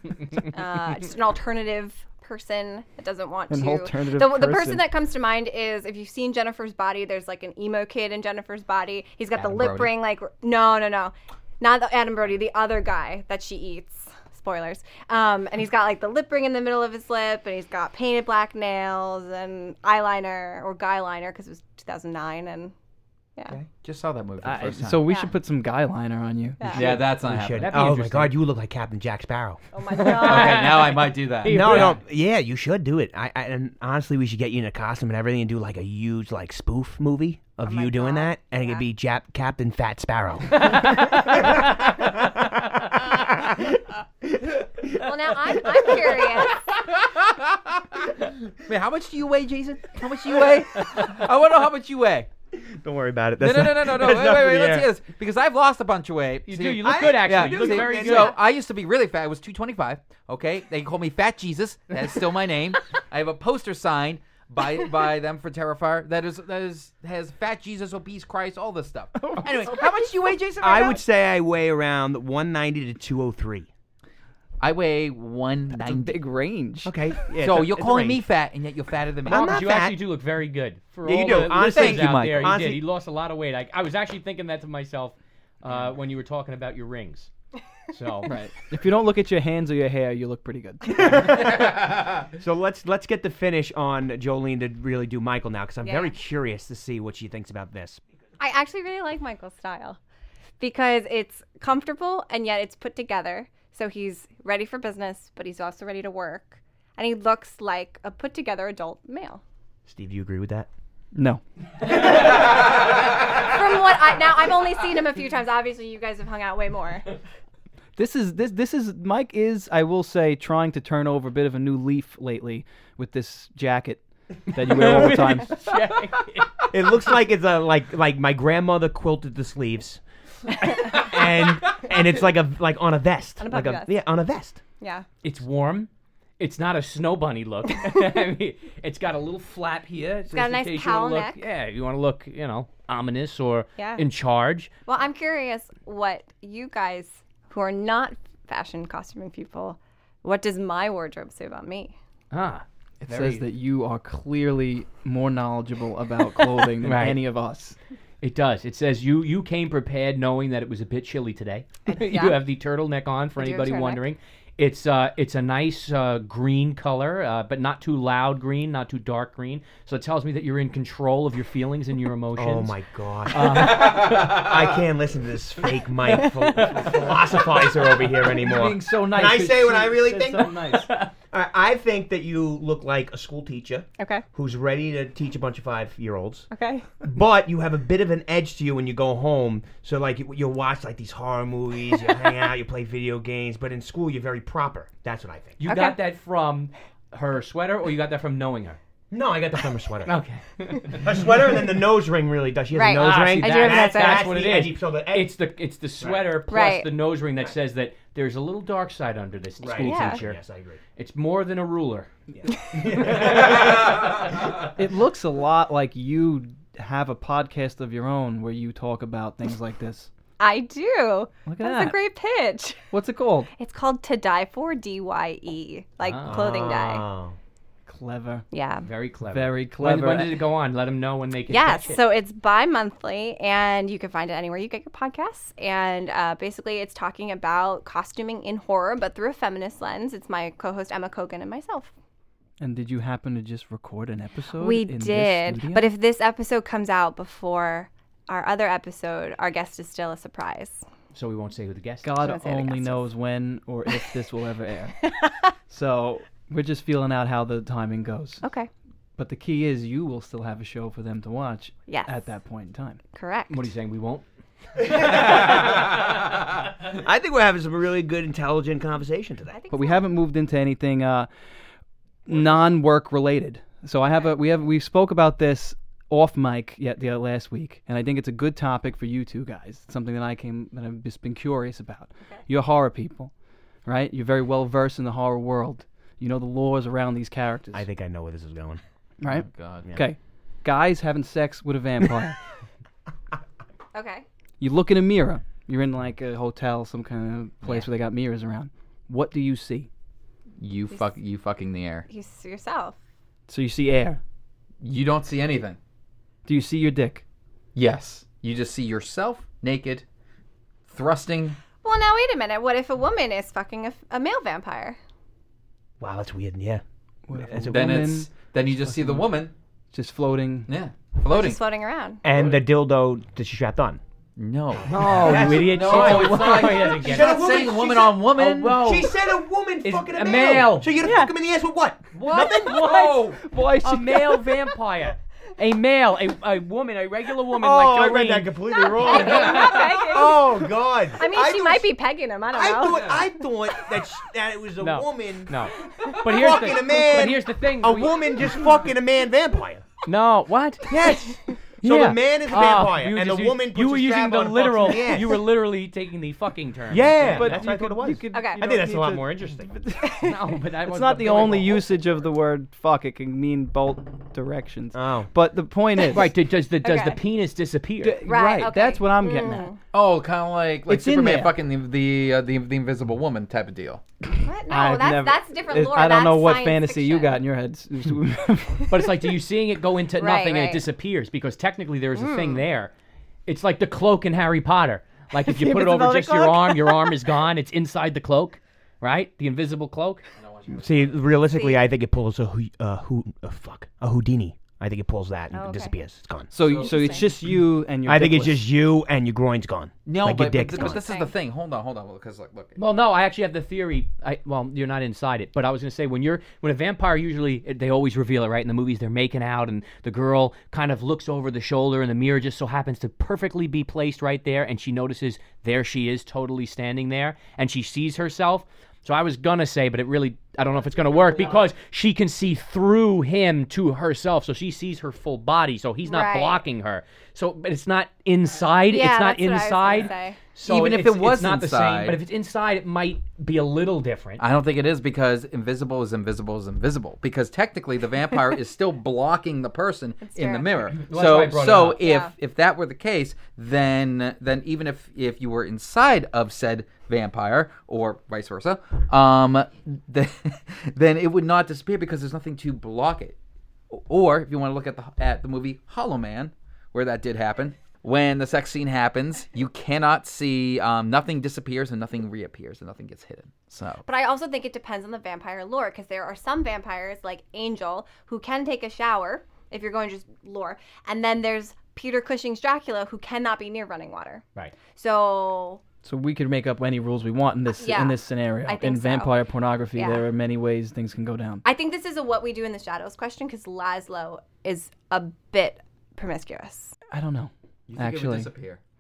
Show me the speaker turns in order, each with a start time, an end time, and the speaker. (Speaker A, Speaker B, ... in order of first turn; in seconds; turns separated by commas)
Speaker A: 0.5-22.7, Speaker B: 3.5-4.9, Speaker C: 9.4-9.9, Speaker C: 23.8-25.0, Speaker B: 24.4-26.9, Speaker A: 25.0-25.3, Speaker A: 26.6-27.1, Speaker C: 26.7-27.6, Speaker D: 27.1-29.6, Speaker E: 27.6-28.3, Speaker A: 29.7-31.1, Speaker E: 29.9-32.0, Speaker C: 30.2-31.9, Speaker D: 31.4-40.9, Speaker A: 37.6-38.9, Speaker E: 40.6-42.2, Speaker D: 42.9-44.9, Speaker A: 45.0-46.7, Speaker D: 45.7-46.0, Speaker C: 46.8-48.0, Speaker C: 48.6-52.3, Speaker D: 52.5-54.9, Speaker C: 53.4-71.0, Speaker E: 56.5-58.4, Speaker D: 56.8-58.3, Speaker B: 69.2-69.5, Speaker D: 69.4-69.7, Speaker D: 70.6-73.7, Speaker C: 74.6-76.2, Speaker B: 75.7-76.9, Speaker D: 76.8-78.2, Speaker C: 77.4-79.5, Speaker D: 79.3-80.0, Speaker E: 79.3-87.3, Speaker D: 81.0-82.8, Speaker C: 81.6-82.5, Speaker E: 87.9-88.3, Speaker B: 88.3-91.3, Speaker D: 90.8-98.0, Speaker A: 95.8-96.2, Speaker A: 98.4-100.0, Speaker A: 100.6-109.4, Speaker D: 109.9-110.7, Speaker B: 111.2-111.4, Speaker A: 111.9-112.7, Speaker A: 113.4-117.1, Speaker B: 118.0-125.5, Speaker E: 124.5-126.5, Speaker D: 126.7-130.0, Speaker A: 130.5-131.1, Speaker D: 130.6-134.6, Speaker A: 133.4-134.0, Speaker A: 134.8-135.1, Speaker E: 135.2-144.7, Speaker A: 140.3-141.4, Speaker A: 143.8-144.1, Speaker A: 144.9-151.9, Speaker E: 152.3-152.6, Speaker B: 153.1-157.8, Speaker E: 156.8-157.2, Speaker E: 158.2-172.8, Speaker A: 162.0-162.4, Speaker A: 163.4-164.0, Speaker D: 172.3-180.6, Speaker E: 173.3-174.4, Speaker C: 173.8-174.3, Speaker E: 176.1-177.8, Speaker B: 178.4-180.9, Speaker E: 180.8-181.1, Speaker D: 181.3-186.5, Speaker A: 184.0-184.2, Speaker A: 186.5-186.9, Speaker D: 187.0-195.6, Speaker E: 195.6-198.8, Speaker A: 195.7-196.0, Speaker D: 199.1-200.1, Speaker E: 200.1-201.0, Speaker D: 200.9-205.4, Speaker A: 202.7-204.3, Speaker E: 202.9-210.4, Speaker D: 206.0-206.3, Speaker A: 206.5-206.9, Speaker D: 209.6-210.8, Speaker A: 209.8-210.2, Speaker E: 211.0-212.1, Speaker D: 212.3-213.9, Speaker A: 212.5-212.9, Speaker E: 212.8-213.5, Speaker B: 214.6-220.1, Speaker A: 220.4-222.8, Speaker B: 221.5-222.0, Speaker B: 222.9-223.5, Speaker A: 223.6-227.1, Speaker E: 226.0-226.4, Speaker D: 226.2-227.4, Speaker B: 227.9-228.5, Speaker A: 228.5-228.9, Speaker E: 228.8-232.0, Speaker B: 229.3-230.4, Speaker A: 231.5-241.9, Speaker B: 242.6-245.9, Speaker A: 244.6-250.8, Speaker E: 251.1-252.4, Speaker B: 252.0-255.1, Speaker A: 252.2-253.1, Speaker B: 255.7-258.4, Speaker A: 258.4-258.7, Speaker B: 259.2-263.0, Speaker A: 261.9-262.2, Speaker A: 263.1-263.6, Speaker E: 263.5-264.3, Speaker D: 265.0-265.7, Speaker D: 266.9-269.6, Speaker A: 269.5-270.1, Speaker B: 269.7-271.3, Speaker B: 272.3-283.3, Speaker B: 283.9-287.9, Speaker D: 287.7-288.8, Speaker B: 289.2-292.4, Speaker C: 289.3-289.9, Speaker A: 293.9-294.2, Speaker B: 294.6-299.9, Speaker C: 300.6-302.1, Speaker A: 300.9-301.2, Speaker A: 302.1-303.0, Speaker B: 303.5-304.2, Speaker C: 304.8-305.8, Speaker B: 306.5-307.2, Speaker C: 307.8-310.1, Speaker C: 310.9-311.7, Speaker A: 311.7-315.0, Speaker D: 316.0-316.8, Speaker B: 317.3-319.3, Speaker D: 317.3-318.2, Speaker C: 317.7-319.5, Speaker B: 319.9-320.7, Speaker C: 320.7-321.6, Speaker A: 321.3-322.2, Speaker D: 322.2-324.0, Speaker C: 324.4-325.0, Speaker E: 324.9-327.5, Speaker D: 324.9-332.9, Speaker C: 325.6-328.8, Speaker E: 328.4-329.3, Speaker E: 329.8-330.9, Speaker A: 331.0-331.3, Speaker E: 332.1-340.1, Speaker C: 332.8-333.4, Speaker B: 333.4-334.5, Speaker D: 337.6-341.9, Speaker A: 338.8-343.3, Speaker D: 342.5-345.5, Speaker E: 344.8-348.5, Speaker D: 346.2-349.9, Speaker E: 350.1-351.0, Speaker D: 350.9-355.4, Speaker E: 351.8-357.6, Speaker D: 356.9-359.8, Speaker B: 357.2-366.3, Speaker A: 358.3-358.6, Speaker A: 360.0-360.4, Speaker E: 360.2-361.8, Speaker D: 364.9-365.3, Speaker E: 366.1-368.2, Speaker A: 366.8-367.2, Speaker B: 368.0-369.7, Speaker A: 368.2-369.8, Speaker C: 369.9-374.0, Speaker B: 370.9-371.5, Speaker A: 374.4-377.4, Speaker B: 374.7-379.1, Speaker E: 378.9-382.9, Speaker A: 380.2-380.8, Speaker A: 382.1-382.6, Speaker E: 383.5-390.2, Speaker A: 385.4-387.3, Speaker C: 390.4-391.4, Speaker D: 390.8-396.6, Speaker A: 391.4-391.8, Speaker A: 395.5-395.9, Speaker B: 396.5-398.7, Speaker C: 396.6-397.1, Speaker A: 396.8-397.3, Speaker D: 398.1-401.0, Speaker C: 400.1-402.8, Speaker A: 400.7-401.4, Speaker E: 402.8-434.4, Speaker A: 426.0-426.6, Speaker A: 428.9-430.6, Speaker C: 430.6-432.2, Speaker C: 434.4-453.4, Speaker A: 440.2-440.8, Speaker E: 440.9-442.0, Speaker A: 442.0-442.3, Speaker C: 453.9-464.0, Speaker A: 464.0-475.8, Speaker B: 476.0-481.6, Speaker A: 477.7-479.4, Speaker A: 479.9-480.3, Speaker A: 481.6-486.9, Speaker B: 487.1-488.5, Speaker C: 487.9-488.8